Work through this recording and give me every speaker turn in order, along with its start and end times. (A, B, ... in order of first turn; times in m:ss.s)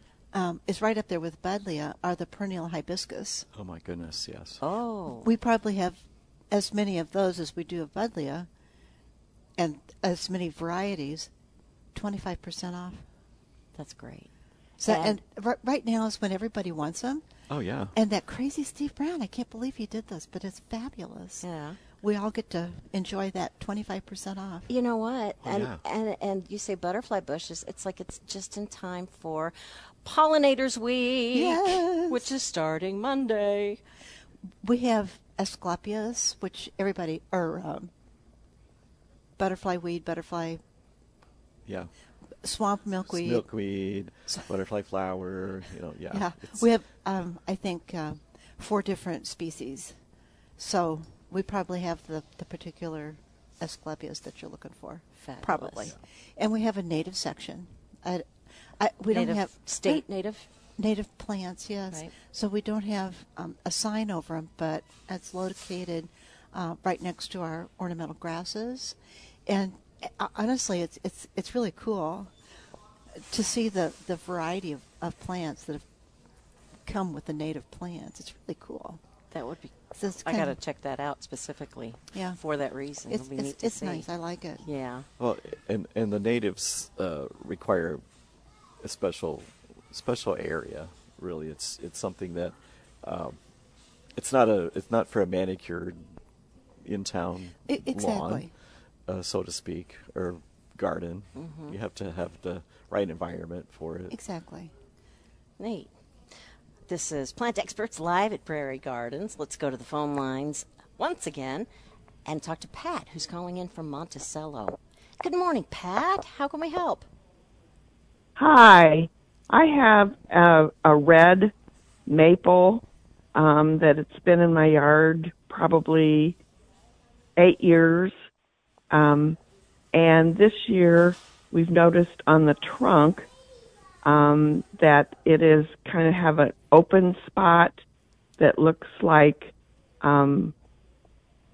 0:00.3-0:03.5 A
0:03.5-0:04.6 B
0:04.6-0:05.3 C
0:05.2-0:08.5 A
0:09.6-0:11.3 A
0:11.9-0:13.0 A
0:13.8-0:14.3 C
0:14.8-0:17.2 A
0:14.8-0:15.2 C
0:17.5-0:17.9 B
0:17.9-0:21.4 A
0:21.4-0:21.8 C
0:22.0-0:24.7 A
0:24.7-0:33.8 C
0:25.4-0:25.8 B
0:31.3-0:32.3 A
0:34.6-0:37.9 A
0:39.4-0:40.6 A
0:42.4-0:43.4 A
0:43.1-0:46.6 B
0:46.1-0:49.9 A
0:50.6-1:00.0 A
0:55.2-0:55.9 C
0:59.1-1:00.4 C
1:00.8-1:12.3 A
1:13.1-1:15.8 A
1:16.8-1:19.0 A
1:19.3-1:24.0 C
1:20.0-1:20.6 A
1:22.1-1:22.4 A
1:23.1-1:24.6 A
1:24.6-1:25.1 C
1:25.2-1:28.0 B
1:28.8-1:33.4 B
1:34.2-1:36.0 B
1:36.8-1:38.5 B
1:37.7-1:38.5 A
1:39.1-1:44.1 B
1:41.4-1:41.8 C
1:44.1-1:44.7 A
1:45.6-1:45.9 C
1:46.9-1:51.7 C
1:52.2-1:57.1 C
1:58.4-2:01.5 D
2:02.1-2:02.8 D
2:03.3-2:06.4 D
2:07.4-2:08.1 D
2:08.9-2:09.4 D
2:09.9-2:13.3 D
2:14.0-2:17.8 D
2:18.4-2:20.5 D